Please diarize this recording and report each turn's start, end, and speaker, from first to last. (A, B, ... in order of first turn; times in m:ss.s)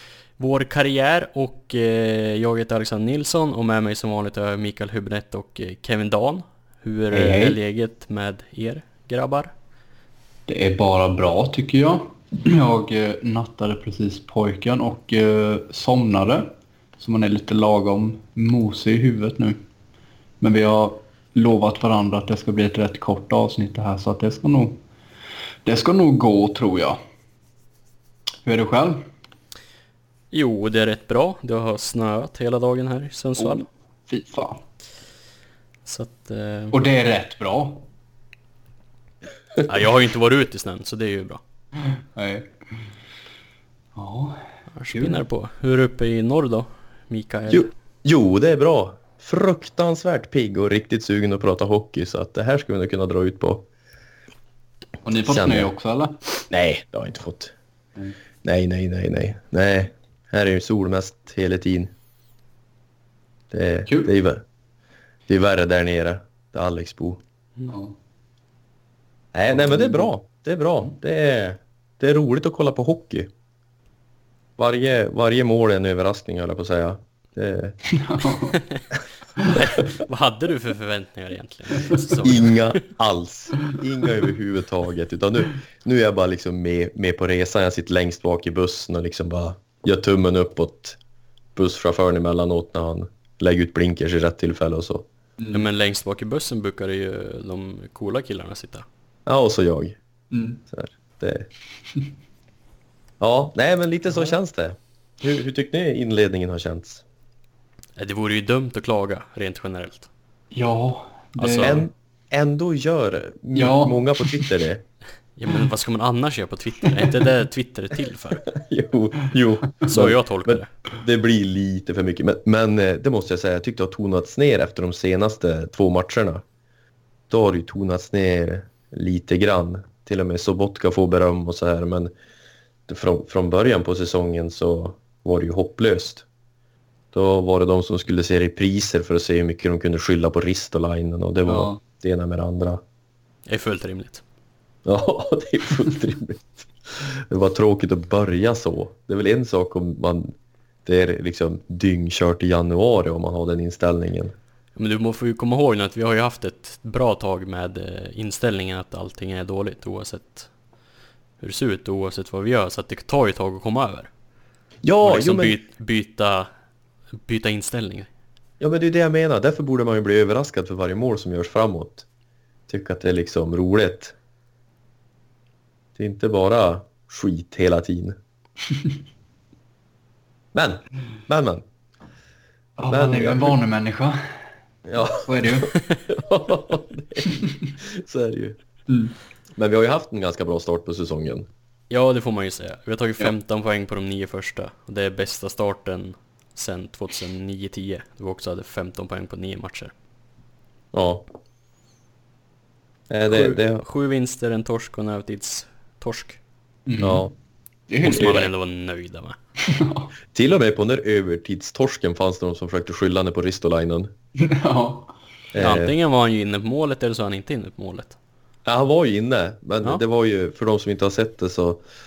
0:00.4-0:09.5 A
0:07.1-0:07.6 B
0:10.5-0:19.6 B
0:20.4-0:24.8 B
0:25.6-0:27.0 B
0:28.4-0:29.0 B
0:30.3-0:33.6 A
0:33.4-0:34.6 B
0:35.8-0:36.8 A
0:36.7-0:37.9 B
0:39.6-0:41.4 A
0:41.8-0:42.5 B
0:44.0-0:44.4 B
0:44.7-0:47.7 A
0:44.9-0:45.2 B
0:47.5-0:53.6 C
0:55.0-0:56.2 B
0:55.2-0:55.7 C
0:56.5-0:57.5 C
0:58.4-1:01.9 C
1:03.5-1:04.4 C
1:05.3-1:07.2 C
1:07.7-1:07.9 B
1:09.3-1:13.3 C
1:09.5-1:10.1 B
1:14.6-1:17.8 C
1:17.9-1:18.6 B
1:18.5-1:18.8 A
1:19.4-1:22.6 A
1:22.2-1:31.0 C
1:31.5-1:35.1 C
1:35.4-1:35.6 B
1:35.5-1:38.8 A
1:39.2-1:40.0 C
1:40.3-1:40.6 B
1:40.7-1:41.5 C
1:43.2-1:47.0 C
1:48.0-1:50.1 A
1:50.5-1:51.9 B
1:51.4-1:51.8 A
1:51.6-1:54.8 C
1:53.5-1:54.5 B
1:55.4-1:58.5 A
1:58.5-2:06.4 C
1:59.8-2:00.7 A
2:07.3-2:12.1 C
2:12.9-2:16.2 C
2:17.1-2:22.8 C
2:21.5-2:21.8 B
2:23.5-2:24.2 A
2:24.8-2:30.3 C
2:30.8-2:34.3 C
2:34.8-2:40.5 A
2:41.4-2:44.1 A
2:44.8-2:45.6 C
2:45.0-2:46.5 A
2:47.2-2:48.1 A
2:48.6-2:52.0 C
2:52.7-2:54.1 C
2:56.0-2:58.2 C
3:00.5-3:01.6 C
3:02.8-3:04.2 B
3:02.9-3:03.6 C
3:04.8-3:08.6 C
3:05.2-3:05.7 B
3:08.9-3:09.1 B
3:09.5-3:11.5 C
3:11.9-3:19.9 A
3:20.9-3:21.3 C
3:23.1-3:23.8 C
3:23.3-3:26.4 A
3:26.8-3:27.3 B
3:27.0-3:27.3 C
3:27.9-3:28.5 B
3:28.0-3:29.4 A
3:29.6-3:30.1 B
3:30.3-3:34.1 C
3:34.4-3:35.1 B
3:35.5-3:35.9 C
3:35.6-3:38.2 A
3:38.6-3:41.8 C